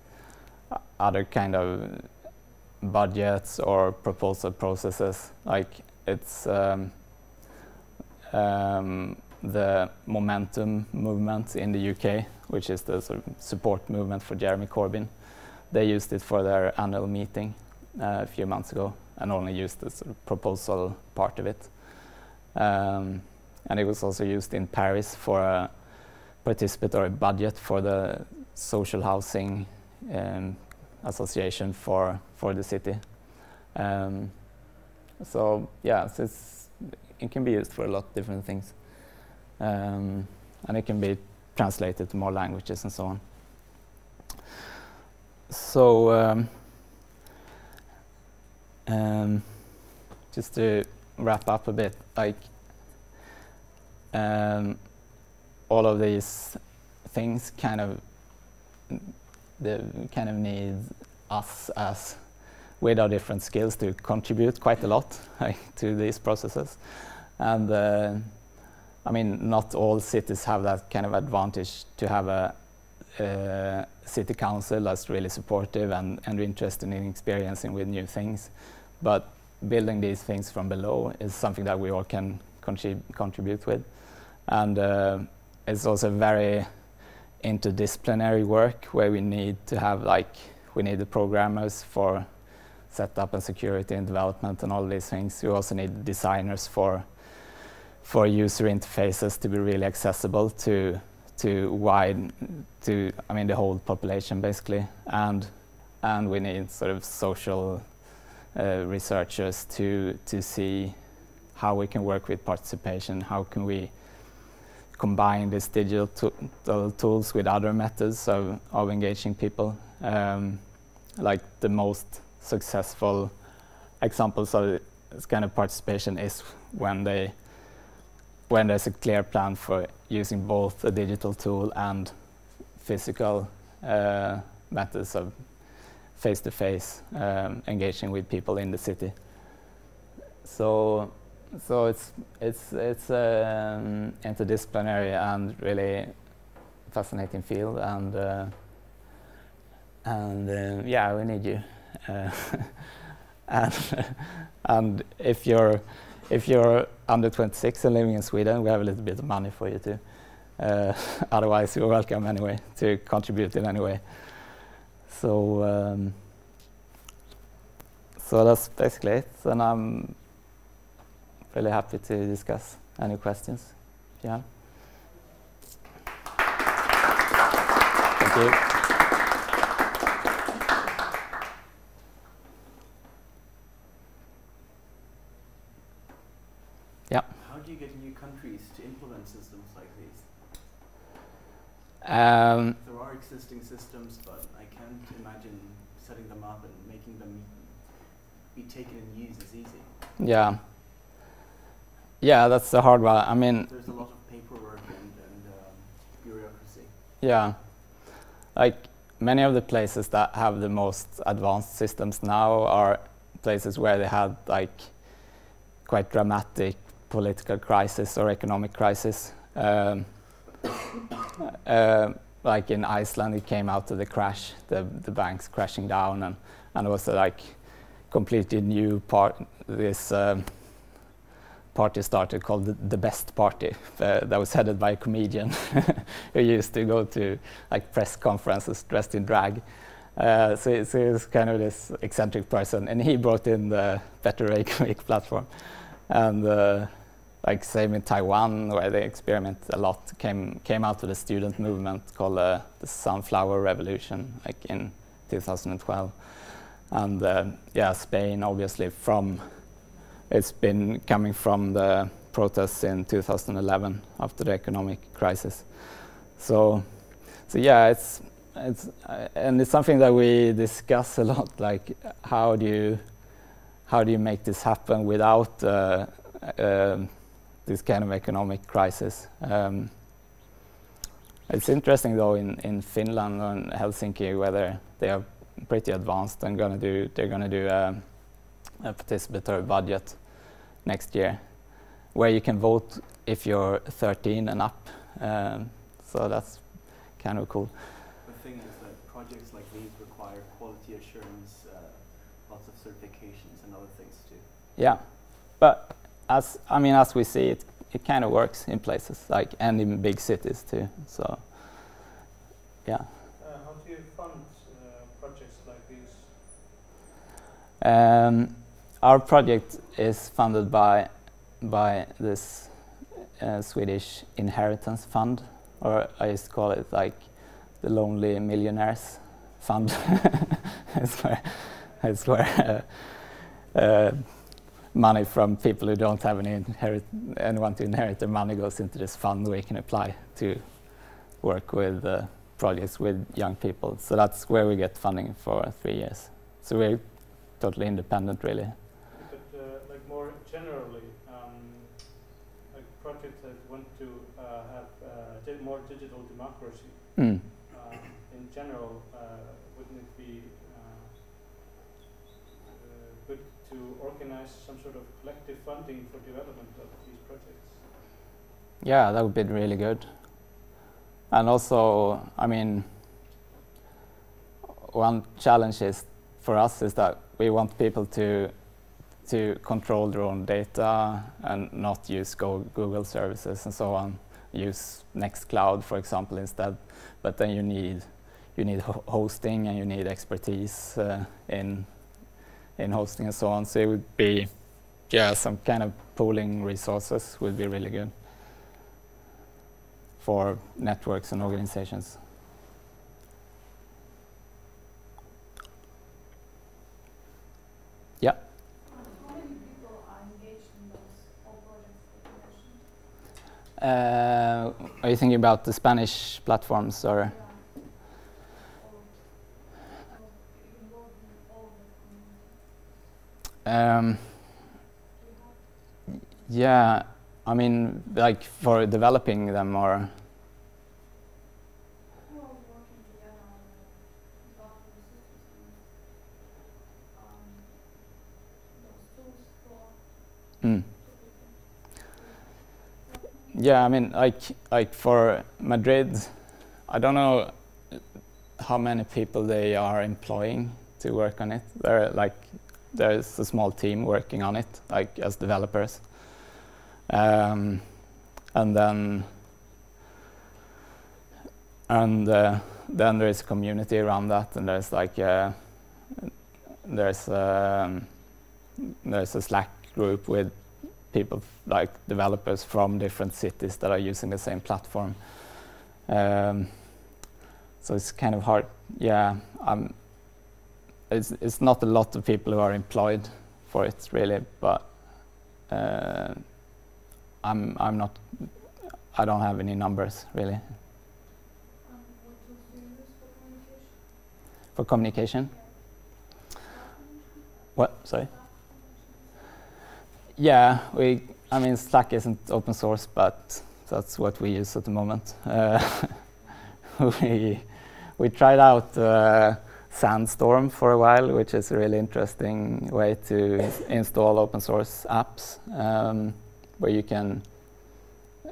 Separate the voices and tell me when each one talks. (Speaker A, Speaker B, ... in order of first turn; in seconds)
Speaker A: 0.7-2.2, 2.8-6.9, 8.3-34.6, 35.2-43.7, 45.5-46.6, 48.9-53.1, 54.1-55.0, 55.7-68.5, 69.0-86.7, 87.4-111.0, 111.5-123.4, 124.0-127.8, 128.5-132.1, 132.7-139.5, 140.4-148.5, 150.0-166.2, 168.2-170.2, 171.5-174.5, 178.2-178.6, 192.0-192.8, 200.2-200.6, 202.2-203.7, 207.2-220.4, 221.6-231.1, 231.7-273.0, 273.8-279.9, 281.5-297.8, 304.8-312.0, 317.8-348.8, 357.1-357.4, 368.8-370.5, 371.3-372.9, 374.8-392.2, 392.8-398.1, 400.2-402.2, 413.8-417.4, 423.6-424.4, 426.4-430.1, 443.5-456.5, 457.1-459.3, 461.9-466.3, 466.8-468.1, 469.0-476.9, 477.8-480.5, 481.1-486.6, 487.4-490.7, 494.7-495.5, 497.7-498.3, 500.4-506.3, 506.9-517.9
Speaker B: 187.3-190.4, 192.8-200.0, 203.7-206.9, 298.2-304.5
Speaker C: 313.4-316.4, 349.1-361.2, 362.7-368.0
Speaker D: 408.9-413.0, 417.2-422.6, 425.1-426.3, 432.2-436.0, 437.1-443.6, 491.8-494.1, 495.4-499.7